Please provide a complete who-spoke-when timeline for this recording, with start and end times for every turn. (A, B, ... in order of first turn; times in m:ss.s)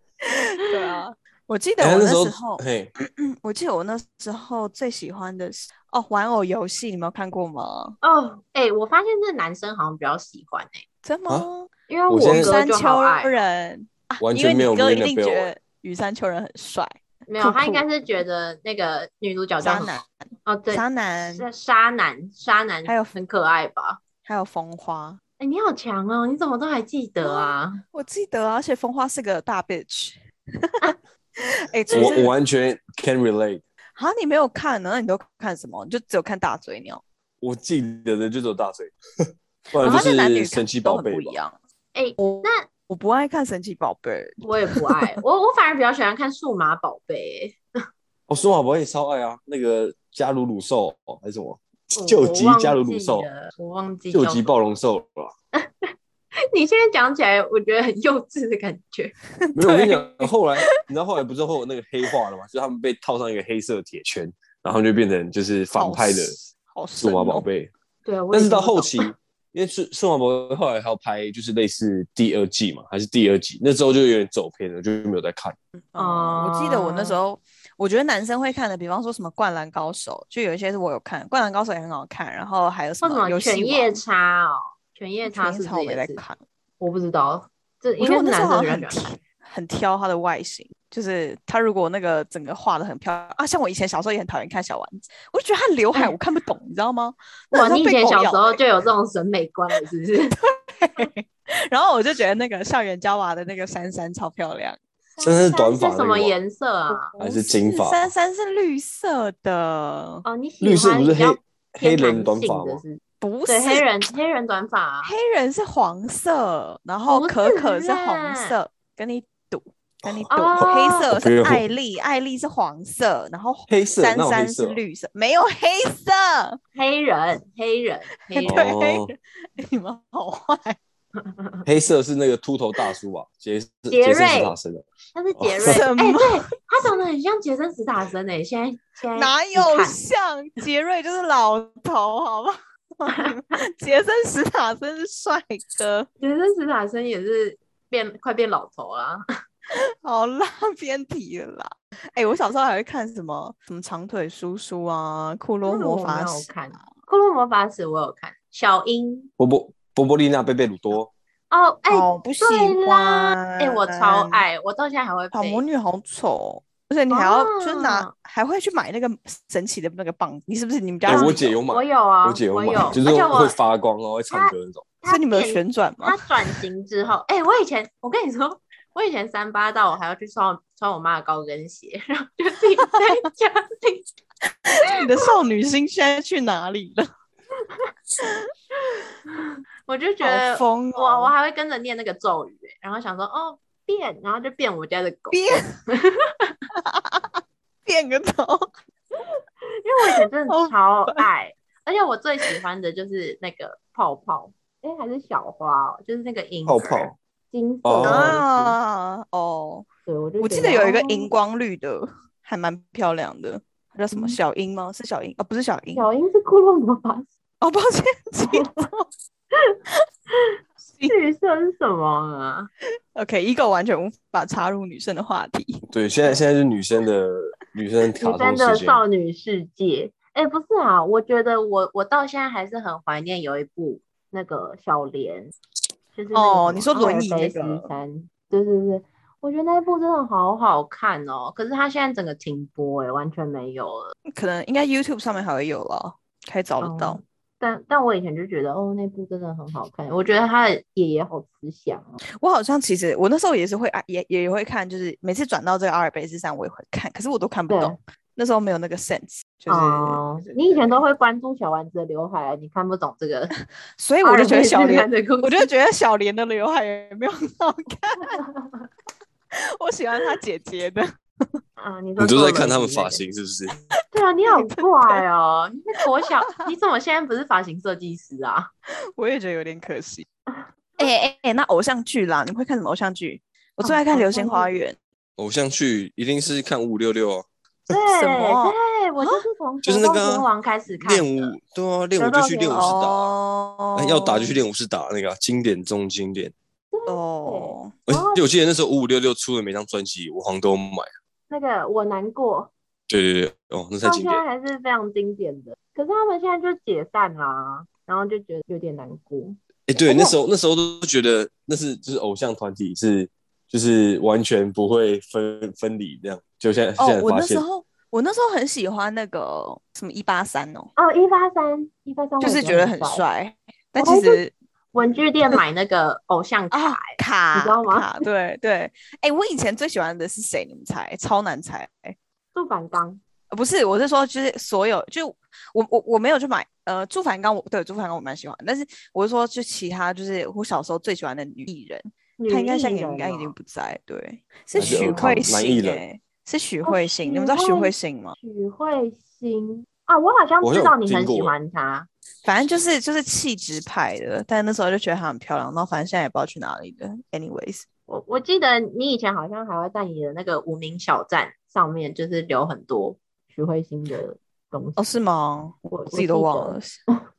0:00.2-0:08.0 A
0:01.8-0:02.9 B
0:08.0-0:10.8 C
0:11.0-0:11.7 A
0:11.9-0:13.3 C
0:12.1-0:12.5 B
0:12.3-0:17.8 A
0:14.2-0:15.5 B
0:17.3-0:19.9 C
0:19.6-0:20.1 A
0:20.4-0:24.0 C
0:20.7-0:21.4 A
0:22.8-0:23.1 A
0:24.2-0:25.2 A
0:25.4-0:27.8 C
0:27.2-0:32.3 A
0:31.9-0:32.3 C
0:31.9-0:33.6 B
0:34.0-0:37.0 A
0:37.4-0:38.9 B
0:39.7-0:41.3 B
0:39.8-0:41.5 A
0:41.9-0:42.7 C
0:42.2-0:45.1 A
0:44.4-0:47.6 C
0:48.3-0:53.3 B
0:52.0-0:54.5 C
0:54.1-0:55.3 B
0:55.6-0:55.9 C
0:56.5-0:59.1 C
0:59.4-1:00.7 A
0:59.5-1:06.4 B
1:05.7-1:07.4 A
1:07.0-1:07.7 B
1:08.0-1:09.1 C
1:08.3-1:15.6 B
1:15.9-1:24.0 A
1:16.0-1:17.2 C
1:23.0-1:26.2 C
1:25.2-1:26.4 A
1:26.8-1:29.0 C
1:28.0-1:38.6 A
1:37.5-1:40.4 C
1:40.3-1:44.8 A
1:45.2-1:47.1 C
1:45.2-1:46.4 B
1:46.9-1:50.2 A
1:47.2-1:48.1 B
1:50.2-1:55.1 C
1:50.6-1:52.8 B
1:53.2-1:53.8 A
1:55.0-2:06.6 A
1:57.1-1:58.5 C
2:00.0-2:01.6 B
2:00.3-2:01.1 C
2:03.7-2:04.8 B
2:06.7-2:08.7 C
2:08.3-2:10.8 A
2:08.5-2:09.1 B
2:11.2-2:11.6 C
2:11.6-2:15.8 B
2:13.9-2:14.5 C
2:15.1-2:20.0 C
2:15.6-2:16.9 A
2:19.1-2:26.1 A
2:23.1-2:23.4 C
2:26.2-2:29.2 C
2:30.0-2:36.8 A
2:35.6-2:39.3 C
2:39.4-2:41.1 B
2:41.5-2:45.6 C
2:41.9-2:44.4 A
2:45.3-2:51.6 A
2:47.1-2:48.1 C
2:51.0-2:54.8 B
2:51.1-2:53.6 C
2:54.3-3:04.0 C
2:55.0-2:56.5 A
3:04.7-3:07.1 A
3:04.8-3:05.3 C
3:08.2-3:08.5 A
3:08.9-3:16.5 C
3:10.2-3:11.3 A
3:15.3-3:15.7 A
3:16.8-3:18.7 A
3:19.8-3:28.7 C
3:20.0-3:21.2 A
3:26.6-3:27.1 B
3:27.8-3:28.4 B
3:28.0-3:29.8 A
3:30.0-3:31.3 C
3:30.4-3:36.0 A
3:34.1-3:34.4 C
3:35.9-3:37.3 C
3:37.6-3:39.1 A
3:38.4-3:38.7 C
3:40.8-3:41.2 A
3:41.1-3:42.7 C
3:43.1-3:45.8 A
3:45.9-3:49.0 B
3:48.2-3:55.5 C
3:56.1-4:04.1 C
3:56.3-3:57.9 A
4:04.3-4:07.2 A
4:06.8-4:12.2 C
4:12.4-4:20.8 A
4:17.7-4:18.0 C
4:19.7-4:23.5 C
4:24.0-4:28.4 A
4:24.2-4:25.7 C
4:28.2-4:28.9 C
4:29.8-4:31.6 A
4:31.8-4:33.2 C
4:32.2-4:33.7 B
4:34.1-4:38.7 C
4:34.4-4:35.2 A
4:39.2-4:40.3 A
4:40.5-4:41.0 C
4:41.0-4:45.0 A
4:43.8-4:44.7 C
4:45.4-4:47.4 B
4:47.9-4:51.5 C
4:48.1-4:49.4 A
4:49.8-4:50.5 B
4:51.0-4:53.3 B
4:52.2-4:53.0 C
4:52.7-4:54.6 A
4:54.0-4:56.5 B
4:56.9-4:58.5 C
4:57.1-4:57.9 A
4:58.1-5:01.1 B
5:01.5-5:02.7 C
5:03.1-5:04.4 B
5:04.0-5:09.6 C
5:09.9-5:17.6 B
5:10.1-5:10.3 A
5:17.0-5:20.9 A
5:21.0-5:23.2 C
5:22.4-5:25.6 A
5:24.0-5:24.4 C
5:24.9-5:28.2 C
5:26.7-5:32.1 A
5:32.5-5:33.2 C
5:33.5-5:48.4 A
5:42.4-5:43.5 C
5:44.8-5:46.0 B
5:46.8-5:52.1 C
5:50.6-5:51.6 B
5:52.4-5:57.8 A
5:58.1-6:05.0 C
6:05.0-6:07.0 A
6:05.9-6:07.2 C